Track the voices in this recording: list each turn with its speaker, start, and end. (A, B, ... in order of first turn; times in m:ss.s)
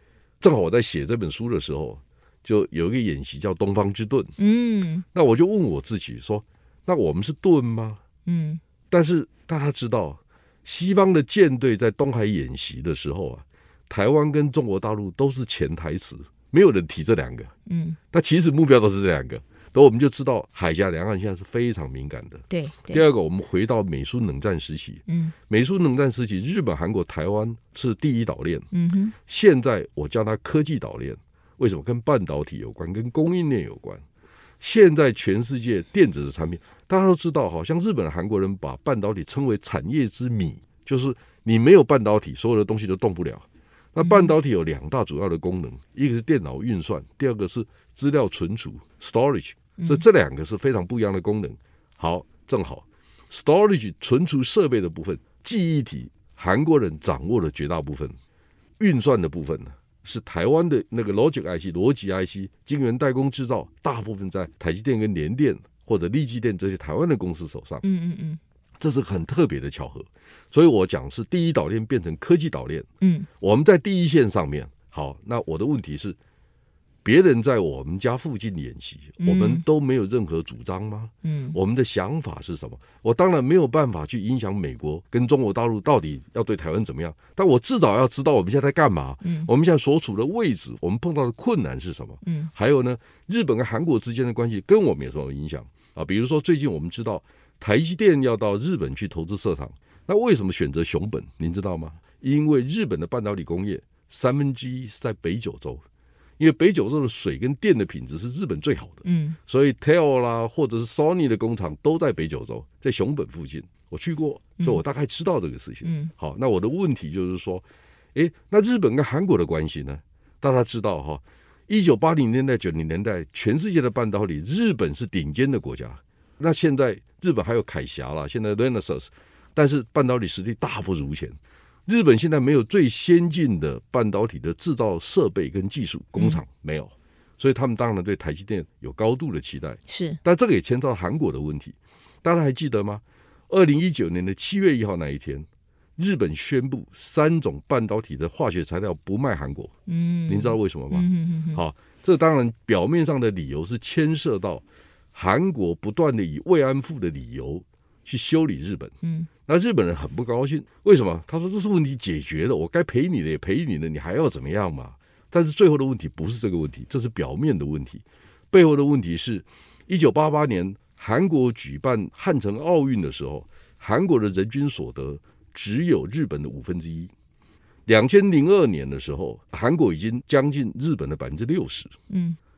0:00.4-0:04.3 A
0:04.4-0:05.0 B
0:05.1-0:08.0 A
0:08.3-0:08.6 B
0:08.9-0:17.5 A
0:17.7-0:18.0 B
0:18.1-0:28.7 A
0:22.5-0:23.0 B
0:25.1-0:25.4 B
0:28.7-0:29.2 B
0:29.2-0:34.0 A
0:34.6-0:58.2 A
0:44.0-0:44.3 B
0:49.8-0:50.0 B
0:58.8-1:07.8 A
1:07.8-1:08.4 B
1:08.8-1:12.9 A
1:13.0-1:13.3 B
1:13.4-1:16.2 A
1:17.0-1:45.8 A
1:19.2-1:19.6 B
1:21.2-1:21.6 B
1:29.2-1:29.5 B
1:32.2-1:32.5 B
1:46.4-1:57.6 A
1:49.0-1:49.4 B
1:55.8-1:56.1 B
1:58.2-2:29.7 A
2:19.9-2:20.2 B
2:29.9-2:31.6 B
2:30.3-2:34.6 A
2:35.1-2:57.1 A
2:39.0-2:39.3 B
2:57.9-3:01.9 A
3:02.1-3:02.4 B